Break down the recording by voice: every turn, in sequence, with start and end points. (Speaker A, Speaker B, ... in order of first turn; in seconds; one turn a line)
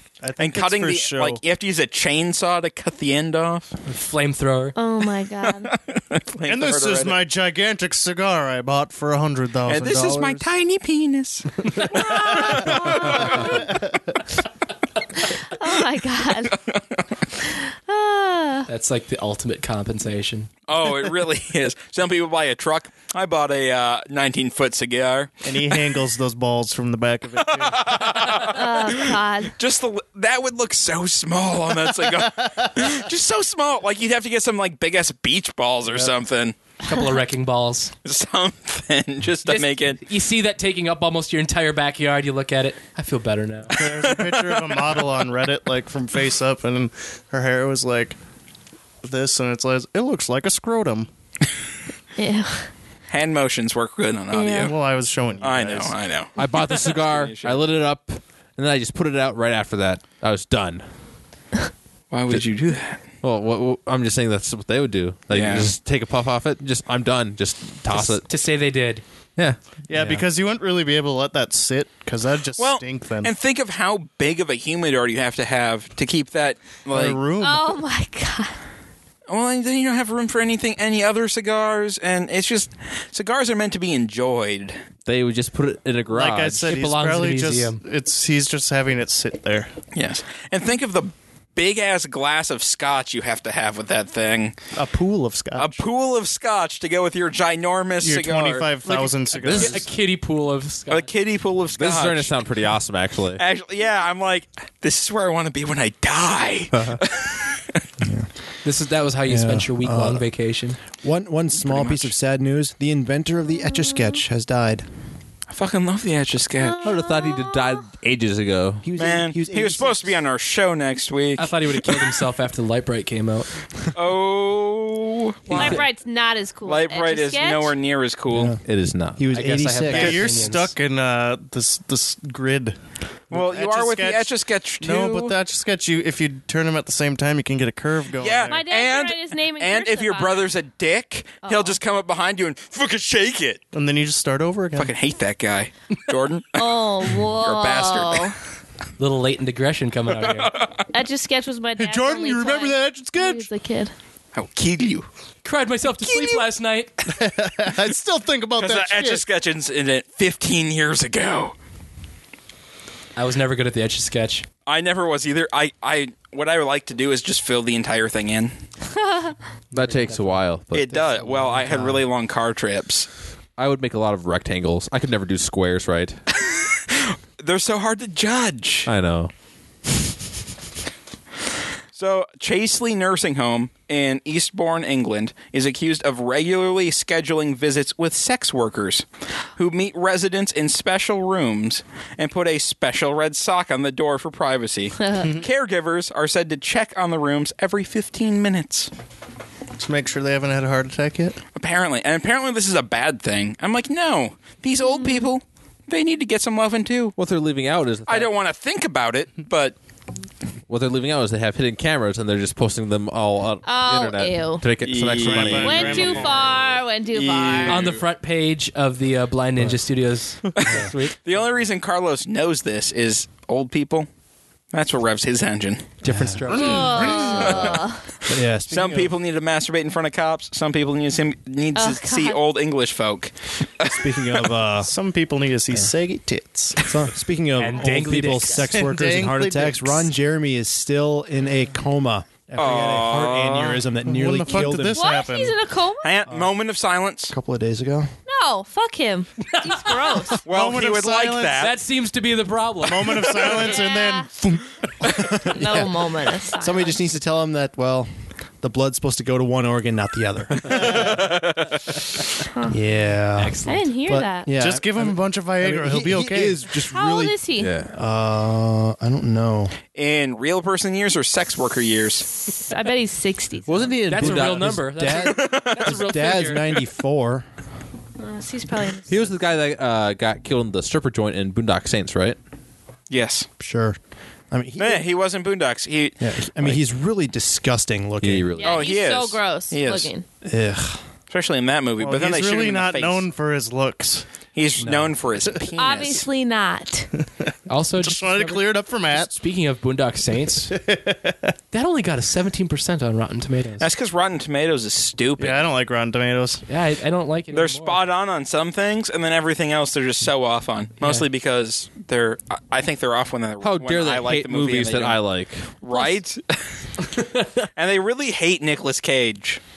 Speaker A: 0.2-1.4
Speaker B: 0.4-3.7
Speaker C: 3.9-4.8
Speaker D: 4.8-5.7
Speaker B: 5.6-7.2
Speaker A: 6.5-10.5
Speaker B: 9.7-13.7
Speaker D: 12.0-13.5
Speaker D: 15.4-16.6
Speaker B: 16.5-17.0
Speaker D: 17.4-18.7
Speaker C: 18.7-20.5
Speaker B: 20.7-25.8
Speaker A: 25.4-28.2
Speaker B: 27.4-36.6
Speaker D: 28.4-29.5
Speaker A: 32.2-32.7
Speaker C: 36.8-37.9
Speaker B: 38.0-40.0
Speaker C: 39.5-43.9
Speaker A: 43.7-48.2
Speaker B: 44.1-44.8
Speaker A: 49.0-51.1
Speaker D: 52.2-52.7
Speaker B: 53.1-54.7
Speaker D: 54.3-54.8
Speaker A: 54.6-56.0
Speaker B: 55.4-57.6
Speaker E: 56.4-60.8
Speaker B: 62.1-63.0
Speaker E: 63.2-68.2
Speaker B: 65.3-65.7
Speaker C: 67.9-69.0
Speaker E: 69.4-70.2
Speaker A: 69.9-73.3
Speaker B: 72.6-77.2
Speaker A: 76.9-77.8
Speaker D: 77.4-78.6
Speaker B: 79.3-84.8
Speaker E: 85.0-86.7
Speaker A: 86.1-89.7
Speaker C: 86.7-87.8
Speaker B: 89.9-94.6
Speaker A: 94.7-95.8
Speaker B: 95.6-98.7
Speaker A: 98.0-99.9
Speaker E: 99.4-99.8
Speaker C: 99.4-101.1
Speaker B: 100.9-102.4
Speaker E: 101.8-103.4
Speaker B: 103.4-107.6
Speaker E: 106.7-107.0
Speaker F: 108.0-108.3
Speaker C: 108.6-110.8
Speaker F: 109.3-110.3
Speaker F: 111.0-114.9
Speaker B: 111.6-112.1
Speaker D: 113.8-114.1
Speaker B: 115.5-116.8
Speaker D: 116.6-117.8
Speaker E: 116.8-118.9
Speaker F: 118.8-120.2
Speaker B: 119.0-122.0
Speaker C: 121.4-123.5
Speaker B: 123.9-125.8
Speaker C: 125.5-125.9
Speaker D: 125.5-127.8
Speaker B: 126.7-128.5
Speaker F: 128.3-128.6
Speaker E: 128.7-129.2
Speaker F: 129.1-130.5
Speaker C: 129.3-130.7
Speaker A: 129.9-132.8
Speaker A: 133.3-138.6
Speaker B: 133.3-135.3
Speaker B: 138.2-143.6
Speaker D: 138.5-140.5
Speaker D: 141.4-141.8
Speaker A: 143.7-144.9
Speaker B: 144.8-148.3
Speaker D: 146.6-148.4
Speaker C: 149.0-150.6
Speaker B: 150.3-150.9
Speaker D: 150.9-153.9
Speaker A: 151.8-153.5
Speaker B: 154.3-155.1
Speaker C: 155.4-156.9
Speaker A: 156.1-156.4
Speaker A: 157.1-159.2
Speaker B: 158.6-161.6
Speaker C: 163.2-164.5
Speaker B: 164.7-168.5
Speaker D: 168.9-169.3
Speaker E: 169.7-171.1
Speaker C: 169.7-170.5
Speaker B: 170.7-173.1
Speaker F: 171.5-172.0
Speaker E: 173.6-176.2
Speaker B: 176.9-178.9
Speaker E: 178.9-179.3
Speaker B: 181.9-198.9
Speaker A: 195.2-195.5
Speaker A: 199.8-201.4
Speaker B: 201.6-207.2
Speaker D: 205.0-205.3
Speaker E: 207.2-208.3
Speaker B: 208.1-209.8
Speaker E: 210.7-216.2
Speaker D: 213.7-214.7
Speaker B: 214.8-216.6
Speaker A: 215.2-216.5
Speaker D: 215.6-217.8
Speaker B: 217.1-218.0
Speaker C: 217.7-221.2
Speaker B: 220.6-224.1
Speaker B: 224.7-225.9
Speaker C: 226.0-227.8
Speaker F: 226.0-226.8
Speaker D: 226.5-228.1
Speaker B: 227.2-227.7
Speaker F: 228.3-229.1
Speaker B: 228.7-234.0
Speaker D: 231.8-232.4
Speaker F: 233.8-234.9
Speaker A: 234.8-236.8
Speaker F: 236.8-245.0
Speaker C: 237.6-238.7
Speaker A: 238.6-240.1
Speaker B: 242.6-243.8
Speaker A: 244.0-245.6
Speaker D: 244.5-246.1
Speaker B: 246.0-247.3
Speaker F: 247.3-248.1
Speaker D: 248.3-250.4
Speaker B: 250.4-251.7
Speaker A: 250.5-251.7
Speaker C: 251.6-253.6
Speaker A: 252.8-254.6
Speaker D: 253.6-254.3
Speaker F: 255.1-258.1
Speaker D: 255.4-257.0
Speaker F: 258.6-261.3
Speaker A: 260.7-261.2
Speaker B: 261.1-261.7
Speaker F: 262.7-269.7
Speaker C: 263.4-263.8
Speaker D: 263.7-264.5
Speaker A: 264.5-266.6
Speaker D: 266.7-267.7
Speaker E: 267.6-267.9
Speaker B: 269.9-272.3
Speaker D: 272.3-274.0
Speaker E: 273.7-274.8
Speaker C: 274.1-276.8
Speaker F: 274.2-277.5
Speaker B: 275.2-276.1
Speaker D: 278.2-279.4
Speaker E: 279.1-282.4
Speaker B: 283.1-283.5
Speaker F: 283.6-284.0
Speaker F: 284.5-285.1
Speaker B: 284.8-286.8
Speaker F: 286.2-288.5
Speaker E: 288.2-288.9
Speaker D: 288.6-290.2
Speaker B: 288.6-290.1
Speaker F: 290.4-291.0
Speaker B: 291.3-293.3
Speaker A: 292.0-294.3
Speaker B: 294.5-296.3
Speaker F: 294.8-295.1
Speaker D: 295.8-297.1
Speaker C: 297.7-300.8
Speaker A: 298.0-299.3
Speaker A: 300.7-301.5
Speaker C: 301.7-303.9
Speaker B: 303.8-305.6
Speaker A: 305.4-306.6
Speaker C: 306.7-308.0
Speaker B: 307.5-315.2
Speaker C: 311.0-311.3
Speaker E: 313.6-315.7
Speaker B: 315.8-316.6
Speaker D: 315.9-316.2
Speaker B: 317.8-319.6